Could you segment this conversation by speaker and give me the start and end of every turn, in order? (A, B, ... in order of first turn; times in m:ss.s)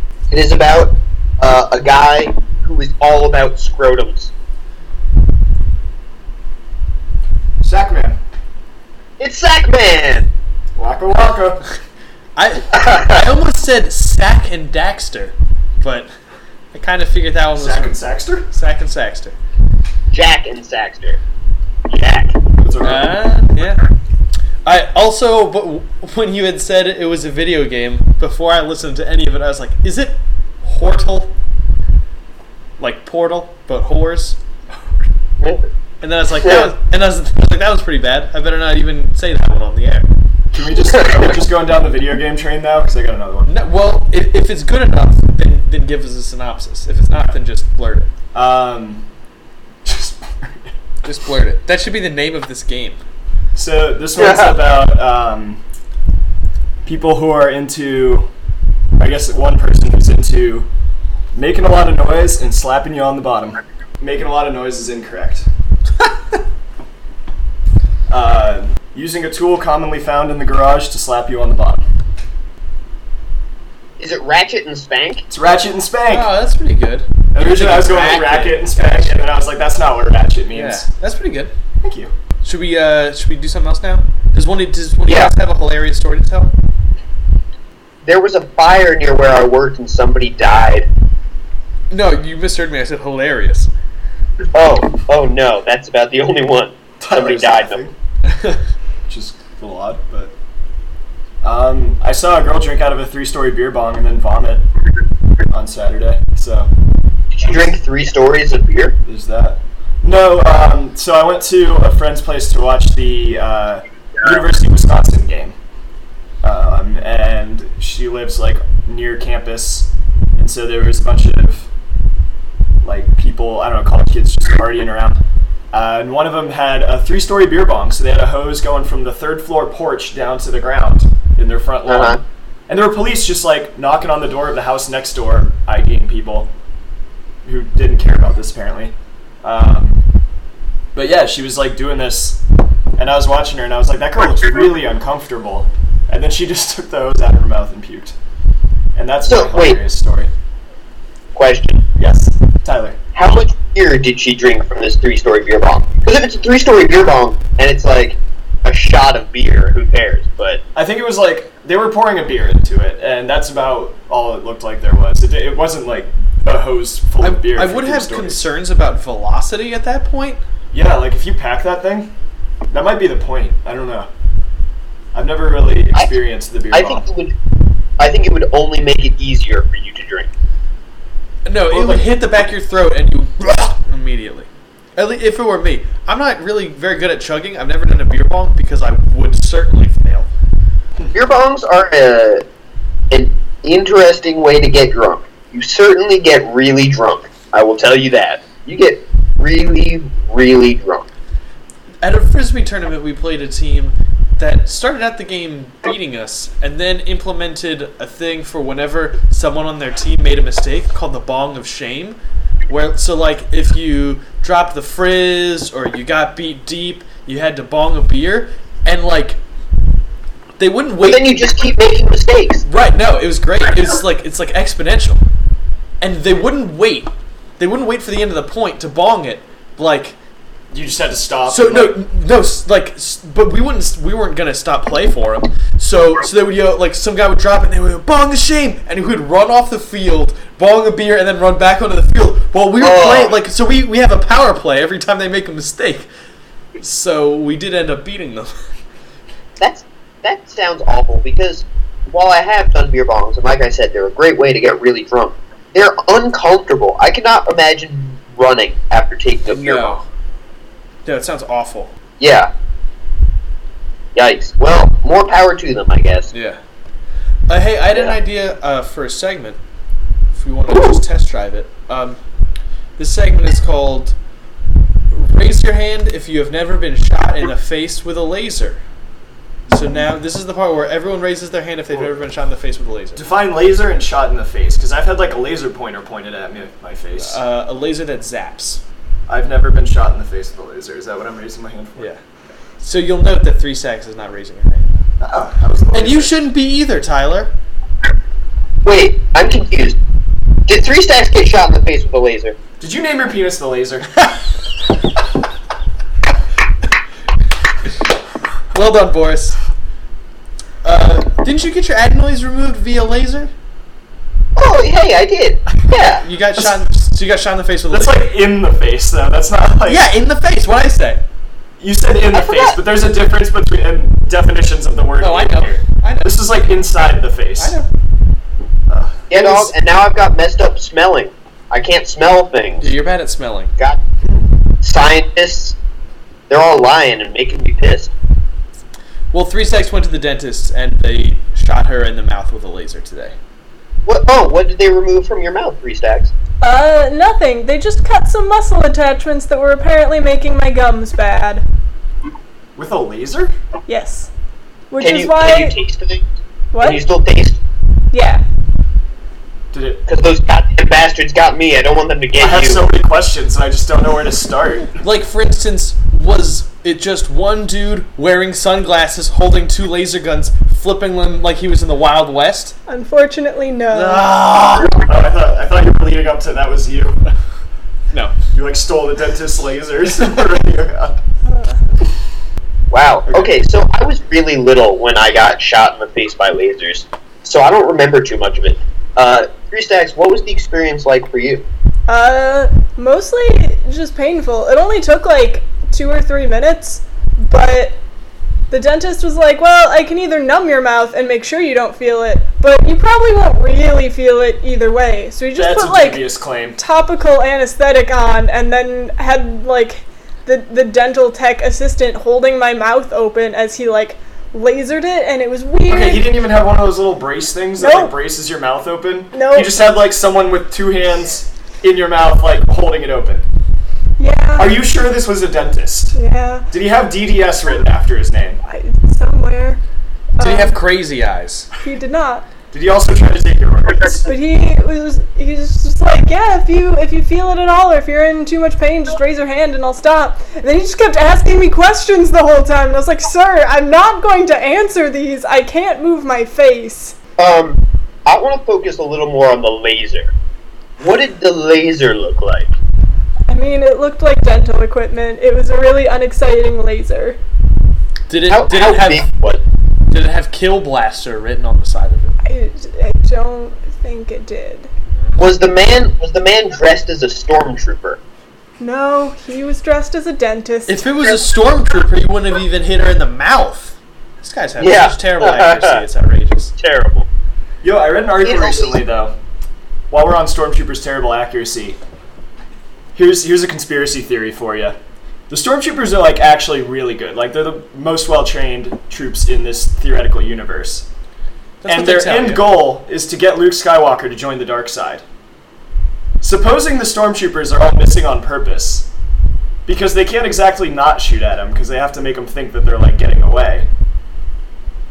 0:00.3-0:04.3 A
0:07.6-0:08.2 B
0:09.2-0:10.3 A
0:10.8-0:11.6 B
0:12.4-0:16.1 C
0:12.7-0:13.2 A
0:16.7-0:18.0 C
0:17.6-0:18.5 B
0:18.5-0:19.4 C
0:20.1-0:21.2 A
0:21.9-0:22.4 A
0:22.6-0:23.2 B
0:22.8-0:23.8 C
0:24.6-0:31.3 C
0:32.8-0:34.4 C
0:36.0-0:40.1 C
0:36.4-0:36.7 A
0:40.5-0:43.6 B
0:43.5-0:48.1 C
0:48.3-0:49.0 B
0:49.8-0:50.7 B
0:51.0-0:53.0 C
0:53.6-0:55.6 B
0:54.2-0:54.6 A
0:56.8-0:58.3 B
0:59.0-1:00.7 B
1:01.3-1:05.5 B
1:08.1-1:11.8 B
1:14.0-1:15.2 A
1:15.3-1:16.3 B
1:16.1-1:19.2 C
1:17.3-1:20.9 B
1:20.5-1:21.5 C
1:21.8-1:22.1 B
1:22.4-1:26.5 C
1:25.0-1:25.3 A
1:28.0-1:30.9 A
1:31.9-1:33.7 C
1:34.5-1:37.8 A
1:37.0-1:37.9 B
1:38.3-1:38.6 C
1:39.1-1:40.3 B
1:41.4-1:44.7 B
1:45.5-1:46.7 B
1:47.3-1:49.0 A
1:49.0-1:55.6 B
1:56.4-2:01.7 B
2:02.8-2:05.2 B
2:05.7-2:16.5 B
2:11.9-2:12.2 A
2:17.4-2:20.0 B
2:20.9-2:22.4 B
2:23.0-2:28.2 B
2:29.0-2:30.3 B
2:29.3-2:29.8 A
2:31.4-2:31.8 A
2:32.0-2:33.0 B
2:33.2-2:40.6 A
2:40.8-2:48.4 B
2:47.2-2:50.4 C
2:50.7-2:52.1 B
2:52.7-2:54.1 B
2:55.1-2:57.1 B
2:56.7-2:57.3 A
2:58.0-3:00.3 A
3:01.4-3:10.3 C
3:01.7-3:02.1 B
3:11.1-3:12.4 A
3:13.1-3:21.1 A
3:22.0-3:32.2 C
3:32.7-3:39.4 C
3:40.6-3:41.3 C
3:41.0-3:42.6 A
3:42.7-3:45.2 C
3:46.0-3:50.2 C
3:50.7-3:52.0 B
3:51.5-4:06.1 C
4:02.8-4:03.4 A
4:06.8-4:08.5 C
4:09.6-4:20.0 A
4:19.5-4:20.0 C
4:21.1-4:21.9 C
4:22.2-4:22.5 A
4:24.2-4:26.3 A
4:26.3-4:26.6 C
4:27.5-4:29.6 C
4:30.3-4:32.2 C
4:33.0-4:34.2 C
4:35.1-4:38.8 C
4:39.7-4:43.2 C
4:43.2-4:47.4 B
4:47.2-4:48.8 C
4:49.3-4:52.1 B
4:52.8-4:54.9 C
4:55.2-4:56.5 B
4:55.9-4:57.5 C
4:58.8-5:00.0 A
5:00.7-5:02.6 A
5:02.8-5:04.4 B
5:08.7-5:09.6 C
5:10.8-5:13.5 C
5:14.6-5:16.2 A
5:16.2-5:18.2 C
5:17.9-5:20.1 B
5:19.8-5:21.2 C
5:21.8-5:27.8 B
5:22.3-5:22.8 A
5:25.2-5:26.3 C
5:27.6-5:27.9 C
5:28.9-5:29.7 B
5:29.3-5:32.9 A
5:32.8-5:33.7 C
5:34.8-5:35.8 A
5:36.5-5:38.1 A
5:39.3-5:43.4 C
5:44.1-5:46.3 A
5:46.6-5:51.6 D
5:52.8-5:53.5 B
5:53.9-5:54.3 D
5:54.9-5:55.8 D
5:55.0-5:56.2 A
5:56.7-5:57.0 D
5:56.8-5:57.6 A
5:58.1-5:58.4 D
5:59.7-6:00.0 B
6:00.1-6:02.9 A
6:02.4-6:05.0 B
6:05.0-6:12.8 C
6:12.9-6:14.3 D
6:13.9-6:15.0 C
6:15.0-6:17.2 B
6:18.5-6:21.2 B
6:21.5-6:21.8 D
6:22.9-6:31.6 A
6:23.3-6:23.5 B
6:32.1-6:38.0 D
6:38.7-6:46.2 D
6:45.5-6:46.8 B
6:46.8-6:56.3 D
6:55.9-7:03.5 B
6:57.8-6:58.1 D
6:59.3-6:59.8 D
7:04.2-7:04.7 D
7:04.6-7:06.2 B
7:06.1-7:06.7 D
7:06.7-7:08.6 B
7:08.7-7:09.8 D
7:10.4-7:10.8 D
7:10.4-7:11.7 C
7:11.8-7:12.5 D
7:12.7-7:14.3 B
7:14.3-7:27.2 D
7:27.4-7:30.3 A
7:31.0-7:32.7 A
7:33.5-7:37.4 D
7:38.3-7:39.3 C
7:38.5-7:39.6 A
7:40.1-7:42.4 C
7:42.4-7:44.9 D
7:45.4-7:48.2 A
7:48.8-7:51.1 D
7:50.9-7:56.7 C
7:54.8-7:56.0 A
7:56.8-7:57.3 A
7:57.8-7:59.3 B
7:58.4-7:59.0 A
8:00.1-8:02.0 B
8:03.2-8:05.0 B
8:05.5-8:11.1 B
8:11.8-8:12.7 C
8:11.9-8:15.2 B
8:16.4-8:19.1 B
8:19.9-8:23.9 B